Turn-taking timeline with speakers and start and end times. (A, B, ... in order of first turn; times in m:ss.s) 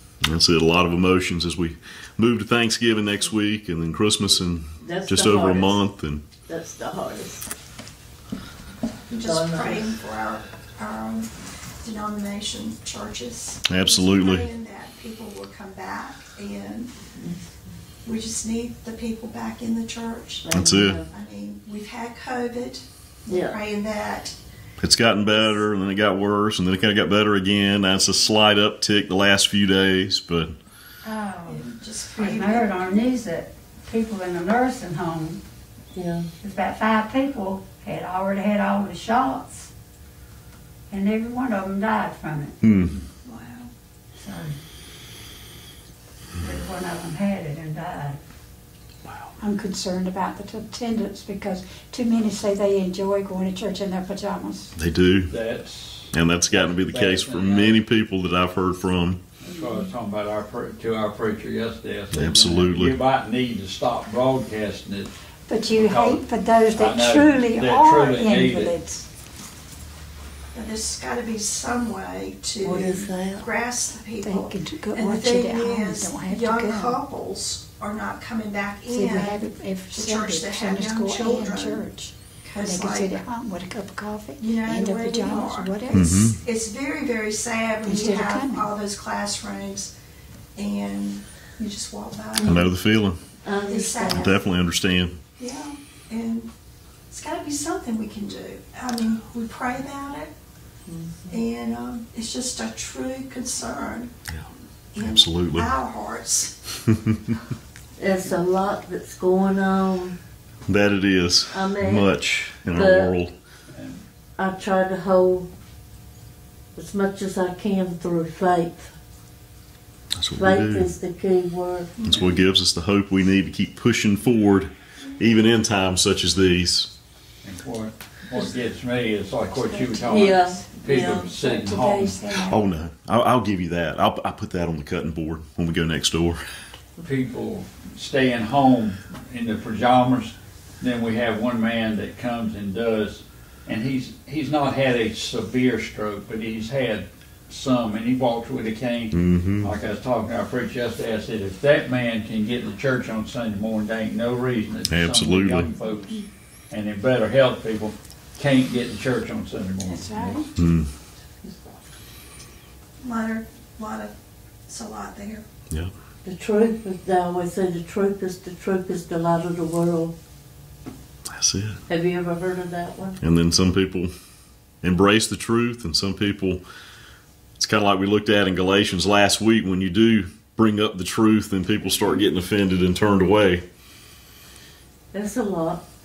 0:00.2-0:06.2 A
0:04.8-0:05.8 B
0:06.5-0:07.5 B
0:09.1-0:11.3 C
0:09.2-0:09.9 B
0:11.8-0:16.9 C
0:13.7-0:14.5 A
0:18.0-0:20.5 C
0:20.4-0:21.1 B
0:20.5-0:21.0 A
0:21.1-0:24.4 C
0:23.3-0:23.6 B
0:24.8-0:30.6 A
0:31.0-0:35.4 D
0:31.4-0:33.0 C
0:35.9-0:36.3 B
0:36.4-0:39.7 D
0:40.9-0:42.6 D
0:42.6-0:42.9 A
0:43.2-0:43.7 C
0:44.2-0:44.6 D
0:46.4-0:48.2 D
0:49.4-0:54.7 E
0:54.8-0:55.3 A
0:55.3-0:57.8 F
0:56.1-0:59.2 A
0:59.4-1:05.1 F
1:02.1-1:03.0 A
1:05.5-1:09.1 E
1:05.7-1:06.2 F
1:06.7-1:08.8 F
1:10.5-1:21.8 C
1:12.6-1:13.5 B
1:14.2-1:17.0 E
1:18.9-1:26.3 E
1:22.5-1:23.2 C
1:24.4-1:29.9 C
1:25.9-1:26.4 A
1:27.8-1:28.7 E
1:30.6-1:32.7 C
1:32.4-1:33.2 A
1:33.4-1:34.3 B
1:33.7-1:34.4 C
1:34.1-1:35.2 A
1:35.4-1:36.5 C
1:37.1-1:40.3 C
1:40.9-1:41.3 B
1:41.3-1:44.1 C
1:44.9-1:46.5 C
1:45.0-1:45.7 A
1:46.9-1:47.2 A
1:48.0-1:50.2 B
1:50.7-1:53.3 A
1:51.5-1:52.1 B
1:52.7-1:53.1 B
1:53.7-1:54.0 F
1:54.4-1:55.5 B
1:56.8-1:58.9 B
2:00.1-2:00.9 A
2:00.4-2:01.9 B
2:02.0-2:06.9 A
2:07.4-2:12.2 F
2:09.5-2:12.6 E
2:10.1-2:11.3 B
2:12.5-2:16.4 A
2:17.0-2:40.5 F
2:29.1-2:29.7 A
2:34.9-2:35.7 A
2:39.9-2:40.5 E
2:40.6-2:40.9 A
2:43.0-2:44.1 C
2:44.7-2:45.4 C
2:46.2-2:50.1 B
2:51.3-2:51.8 A
2:51.9-2:53.2 B
2:53.2-2:54.1 A
2:54.8-2:56.6 A
2:57.6-3:03.6 A
3:05.1-3:05.8 B